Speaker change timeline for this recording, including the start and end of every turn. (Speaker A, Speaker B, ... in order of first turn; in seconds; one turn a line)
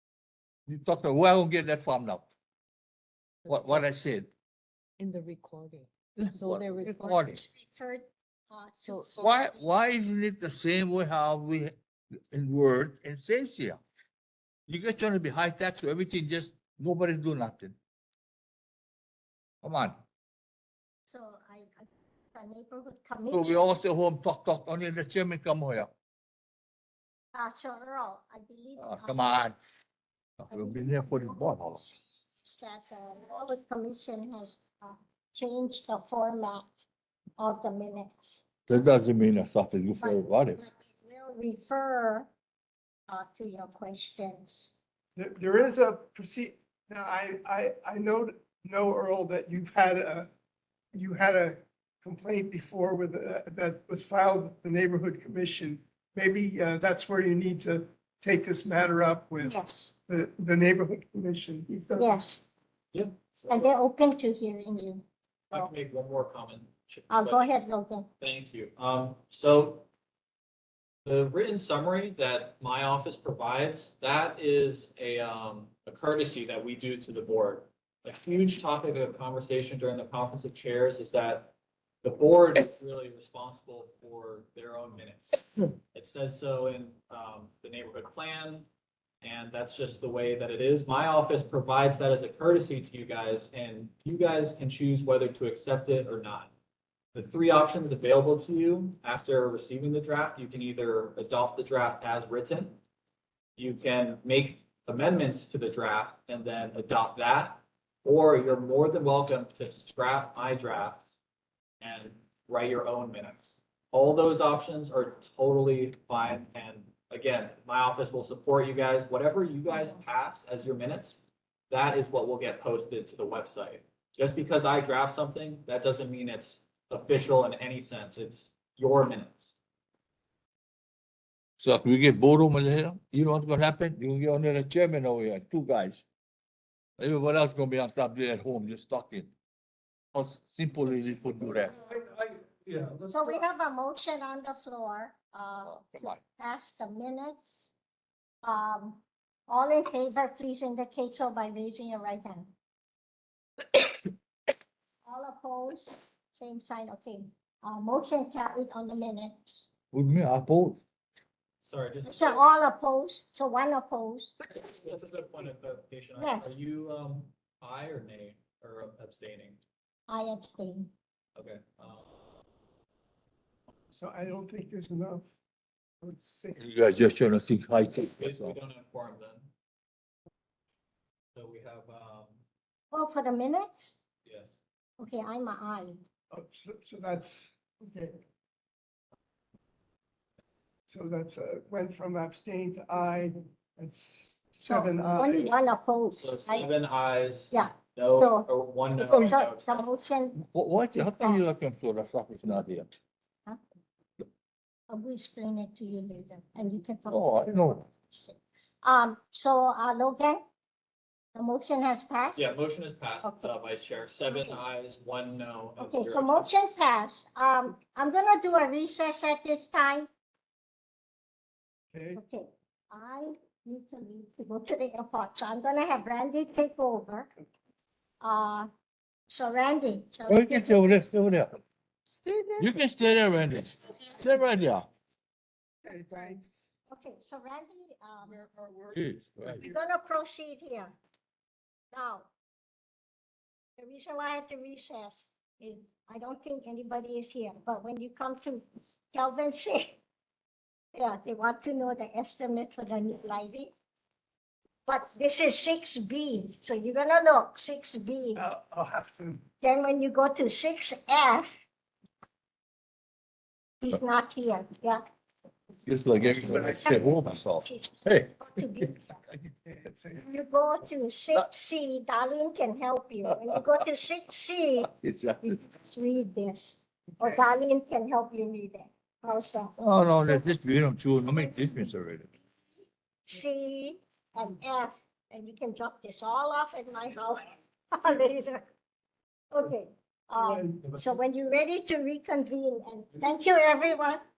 Speaker A: 0.7-2.3
Speaker B: 3.4-3.9
Speaker A: 3.5-4.3
Speaker B: 5.0-6.9
Speaker A: 6.2-7.4
Speaker C: 6.9-9.6
Speaker B: 8.8-9.3
Speaker A: 9.2-11.7
Speaker A: 12.3-13.8
Speaker A: 14.7-17.8
Speaker A: 19.6-20.0
Speaker C: 21.1-23.8
Speaker A: 23.3-25.9
Speaker C: 27.3-29.3
Speaker A: 28.8-29.6
Speaker A: 30.4-31.8
Speaker C: 30.5-36.9
Speaker C: 37.4-38.5
Speaker A: 38.7-40.6
Speaker C: 40.0-42.3
Speaker C: 43.1-44.7
Speaker D: 45.2-50.3
Speaker D: 50.9-59.6
Speaker C: 59.4-59.9
Speaker D: 60.1-62.2
Speaker C: 62.0-62.4
Speaker E: 62.9-63.7
Speaker C: 63.5-65.7
Speaker E: 65.5-67.5
Speaker C: 67.1-68.1
Speaker E: 68.2-69.9
Speaker E: 71.0-88.7
Speaker E: 89.2-96.5
Speaker E: 97.1-102.8
Speaker E: 103.6-111.0
Speaker E: 111.8-129.5
Speaker A: 131.6-136.1
Speaker A: 137.0-139.3
Speaker A: 140.1-141.8
Speaker D: 141.8-143.4
Speaker C: 143.1-147.7
Speaker A: 145.7-146.2
Speaker C: 148.4-152.5
Speaker C: 155.1-159.7
Speaker A: 159.9-160.8
Speaker E: 161.6-162.4
Speaker C: 162.1-164.4
Speaker E: 164.5-169.6
Speaker C: 166.2-166.6
Speaker C: 170.1-170.9
Speaker E: 171.4-172.1
Speaker D: 173.9-175.3
Speaker D: 176.0-176.7
Speaker A: 176.6-178.6
Speaker E: 178.0-179.5
Speaker E: 181.3-182.4
Speaker C: 182.9-184.0
Speaker E: 184.2-184.5
Speaker C: 185.0-186.0
Speaker D: 186.3-188.2
Speaker D: 190.9-195.5
Speaker C: 194.6-196.7
Speaker E: 195.2-195.6
Speaker E: 196.2-199.8
Speaker C: 197.5-198.5
Speaker A: 199.0-199.3
Speaker C: 199.2-200.4
Speaker A: 200.4-202.9
Speaker C: 204.9-210.4
Speaker A: 207.1-207.9
Speaker C: 211.3-212.5
Speaker E: 212.3-216.5
Speaker C: 213.2-213.5
Speaker C: 214.3-214.6
Speaker C: 215.8-220.1
Speaker D: 221.9-222.2
Speaker C: 222.2-227.3
Speaker C: 228.2-228.7
Speaker C: 229.3-230.9
Speaker A: 230.3-231.6
Speaker B: 232.1-232.8
Speaker A: 232.6-234.9
Speaker D: 235.8-236.4
Speaker B: 235.8-236.7
Speaker C: 236.9-238.3
Speaker D: 238.2-239.7
Speaker A: 238.9-239.6
Speaker C: 239.6-241.0
Speaker C: 241.9-242.3
Speaker C: 243.8-250.0
Speaker C: 250.9-253.7
Speaker C: 254.9-258.4
Speaker D: 258.4-259.4
Speaker C: 259.6-261.5
Speaker C: 263.8-265.0
Speaker A: 265.9-269.5
Speaker C: 266.7-267.0
Speaker C: 267.6-269.2
Speaker D: 269.7-270.3
Speaker C: 270.2-274.9
Speaker A: 274.9-275.6
Speaker C: 275.6-279.8
Speaker A: 279.8-282.3
Speaker C: 283.3-288.6
Speaker C: 289.5-294.2
Speaker D: 290.4-291.0